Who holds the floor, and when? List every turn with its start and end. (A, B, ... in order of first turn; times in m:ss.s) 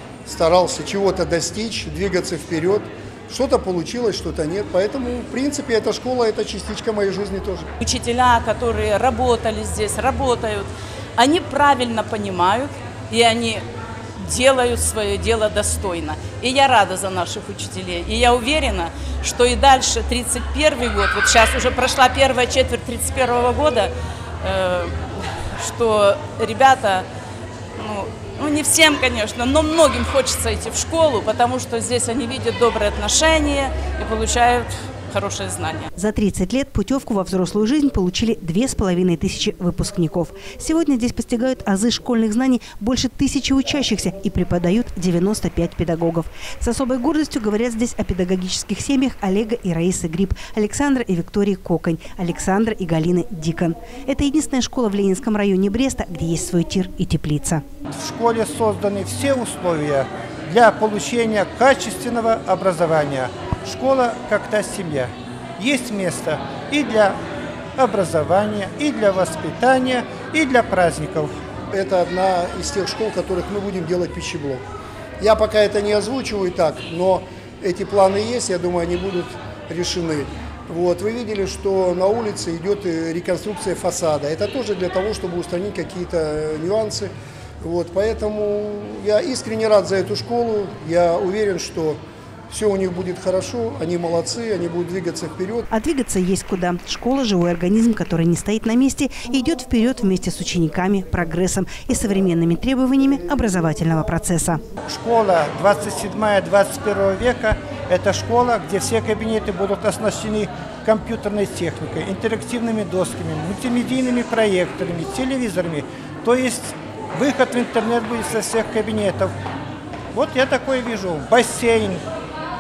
0:00.3-0:07.7 A
0:07.8-0:13.6 B
0:14.2-0:27.1 B
0:27.8-0:35.9 B
0:36.0-0:57.6 C
0:57.9-1:07.2 D
1:07.8-1:11.3 D
1:11.7-1:14.6 A
1:15.2-1:35.7 A
1:35.7-1:44.6 C
1:44.9-1:59.3 D
2:00.1-2:02.0 D